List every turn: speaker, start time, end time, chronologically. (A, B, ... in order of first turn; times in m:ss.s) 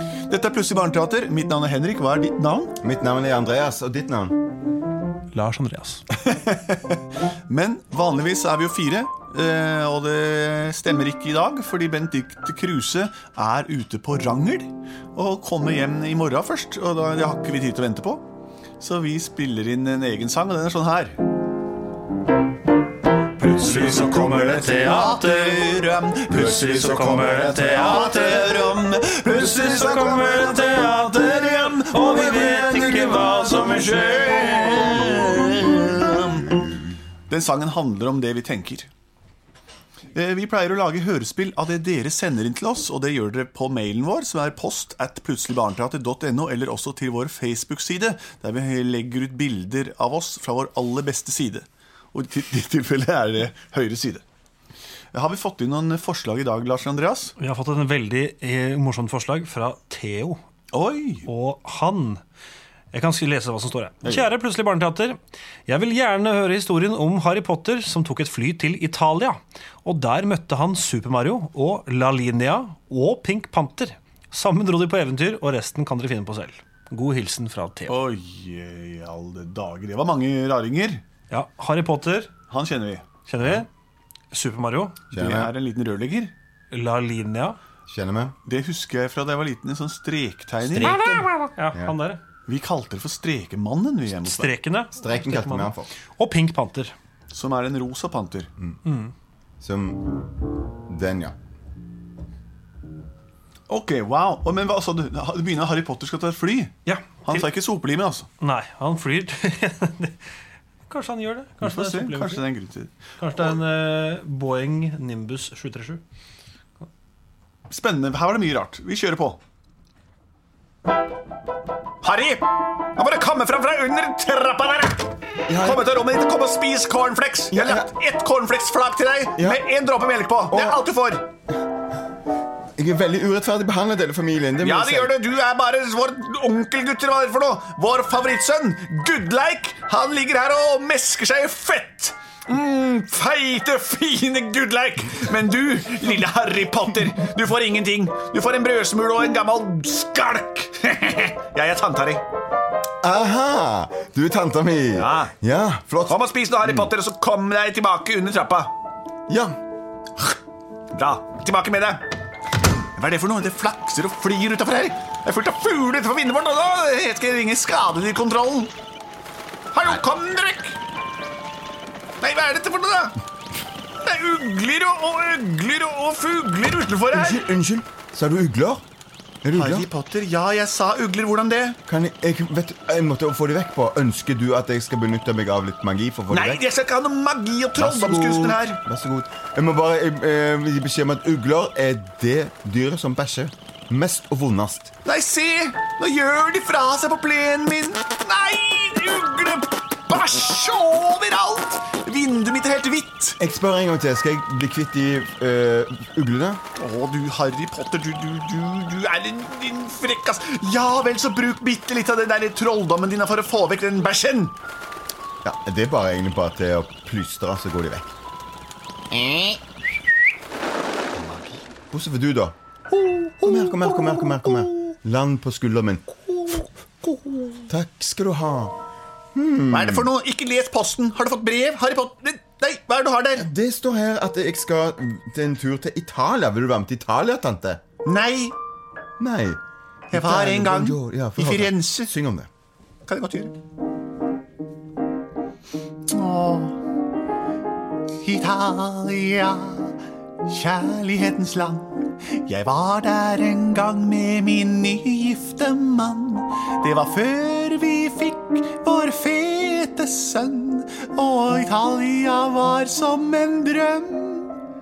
0:00.3-0:02.8 A
0:02.8-0:04.4 B
0:05.3-0:06.0 C
0:06.1-0:18.2 A
0:18.8-0:21.2 A
0:23.4-0:25.6 C
0:23.4-0:36.7 A
0:26.3-0:28.7 C
0:29.3-0:35.8 C
0:37.3-0:38.9 A
0:40.1-0:54.2 A
0:55.1-0:57.4 A
0:57.4-1:00.4 C
1:00.7-1:01.3 A
1:01.2-1:02.2 C
1:02.9-1:18.0 C
1:04.0-1:04.3 B
1:17.9-1:21.0 A
1:21.3-1:22.3 C
1:22.5-1:23.1 A
1:23.3-1:23.7 C
1:24.3-1:25.0 C
1:25.1-1:25.5 B
1:25.1-1:26.3 A
1:26.7-1:27.6 C
1:27.9-1:28.4 B
1:28.4-1:31.0 A
1:30.8-1:32.2 C
1:30.8-1:32.0 B
1:32.4-1:34.5 A
1:34.2-1:36.9 C
1:34.9-1:35.9 B
1:37.3-1:38.5 A
1:38.8-1:39.1 C
1:39.6-1:40.1 B
1:40.9-1:41.4 B
1:43.7-1:48.3 A
1:46.8-1:47.4 C
1:48.4-1:50.1 C
1:50.9-1:52.4 C
1:51.6-1:52.9 A
1:53.2-1:56.0 C
1:57.7-1:59.4 A
2:02.0-2:11.2 A
2:05.5-2:05.9 B
2:07.5-2:07.9 B
2:10.5-2:10.8 B
2:12.8-2:15.1 B
2:14.6-2:32.2 A
2:33.0-2:36.9 B
2:34.9-2:35.3 A
2:36.0-2:38.7 A
2:39.3-2:39.6 B
2:40.9-2:42.1 A
2:42.9-2:48.7 A
2:49.7-2:50.8 A
2:52.2-2:53.2 A
2:54.0-2:57.5 A
2:57.1-2:58.8 B
2:59.4-2:59.9 B
2:59.5-3:01.8 A
3:01.9-3:06.6 B
3:06.3-3:08.8 A
3:07.7-3:14.9 B
3:15.0-3:23.4 A
3:23.4-3:26.6 B
3:26.7-3:34.6 A
3:35.4-3:38.0 B
3:39.1-3:39.6 B
3:41.2-3:41.5 A
3:41.9-3:42.5 B
3:42.9-3:44.9 A
3:43.4-3:46.0 B
3:46.3-3:47.6 A
3:47.7-3:48.8 B
3:49.3-3:50.1 B
3:49.7-3:53.5 A
3:53.4-3:57.8 B
3:58.0-3:58.5 A
3:59.2-3:59.6 B
4:00.1-4:02.1 A
4:00.1-4:02.5 B
4:03.0-4:03.5 A
4:06.1-4:06.8 A
4:08.2-4:24.6 A